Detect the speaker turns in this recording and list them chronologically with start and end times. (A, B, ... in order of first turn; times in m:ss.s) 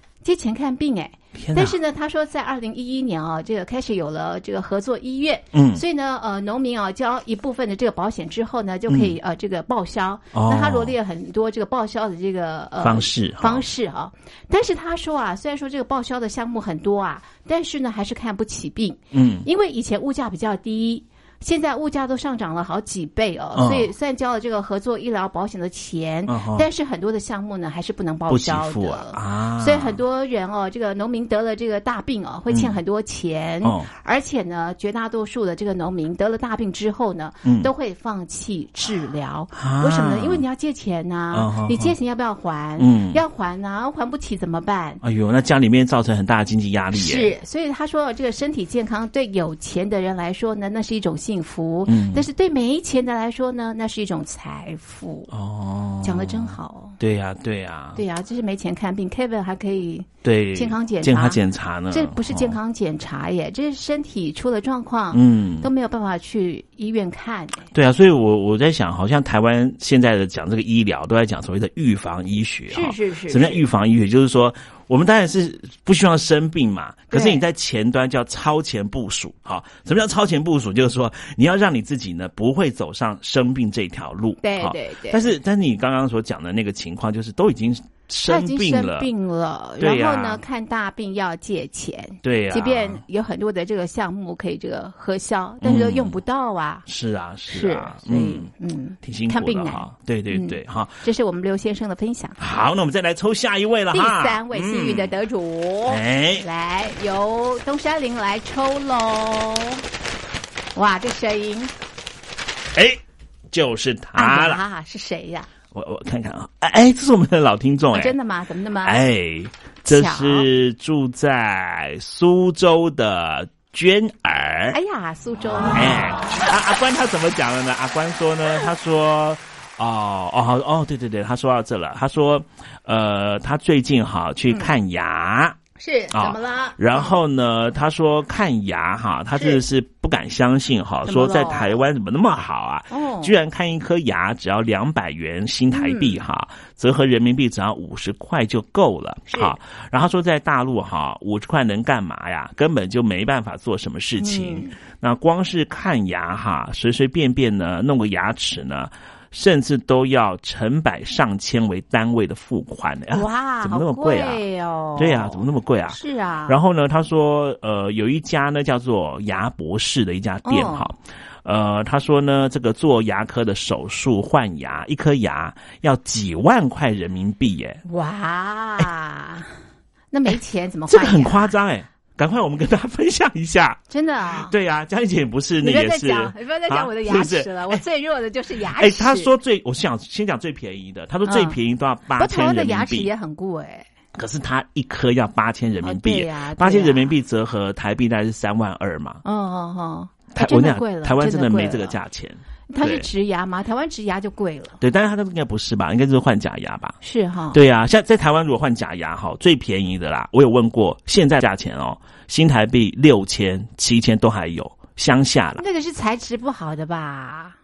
0:00.2-0:45.0 A
0:01.3-0:01.8 B
0:05.5-0:05.8 B
0:08.9-0:09.2 B
0:10.3-0:10.9 B
0:12.8-0:13.6 B
0:19.1-0:19.5 B
0:23.5-0:23.9 B
0:26.3-0:26.6 B
0:28.3-0:30.0 B
0:32.5-0:32.8 B
0:33.6-0:33.9 B
0:37.4-0:37.7 B
0:39.5-0:40.4 B
0:41.3-0:41.9 B
0:42.8-0:43.2 B
0:45.0-0:47.3 B
0:46.9-0:55.3 A
0:51.9-0:52.3 B
0:55.3-0:58.0 B
0:56.0-0:57.0 A
0:58.0-1:07.7 A
1:00.2-1:02.6 B
1:05.1-1:05.7 B
1:07.7-1:29.1 B
1:12.7-1:13.6 A
1:17.1-1:17.4 A
1:24.4-1:25.3 A
1:28.2-1:36.8 A
1:29.8-1:30.4 B
1:32.2-1:33.0 B
1:35.6-1:36.2 B
1:36.9-1:38.5 B
1:37.5-1:42.4 A
1:39.0-1:41.0 B
1:42.4-1:45.1 B
1:43.9-1:49.8 A
1:45.9-1:46.4 B
1:50.7-1:51.7 A
1:52.7-1:54.6 B
1:54.2-1:55.5 A
1:55.7-1:58.1 B
1:57.9-1:59.0 A
1:58.8-2:04.8 B
1:59.8-2:00.5 A
2:04.7-2:06.0 A
2:05.7-2:15.6 B
2:15.8-2:17.2 A
2:16.1-2:44.4 B
2:19.3-2:19.6 A
2:21.0-2:21.8 A
2:22.9-2:23.3 A
2:25.7-2:26.2 A
2:29.3-2:29.5 A
2:34.2-2:34.8 A
2:43.1-2:46.6 A
2:45.0-2:57.8 B
2:50.4-2:50.9 A
2:57.8-2:59.5 A
3:00.1-3:01.5 A
3:00.9-3:03.8 B
3:03.9-3:04.5 A
3:04.4-3:07.8 B
3:05.6-3:09.3 A
3:08.8-3:13.1 B
3:11.2-3:11.6 A
3:12.2-3:13.8 A
3:14.1-3:19.2 B
3:15.8-3:17.1 A
3:19.2-3:22.0 A
3:20.3-3:23.1 B
3:22.7-3:24.8 A
3:24.8-3:27.0 B
3:27.0-3:27.6 A
3:27.5-3:35.6 B
3:35.6-3:37.5 A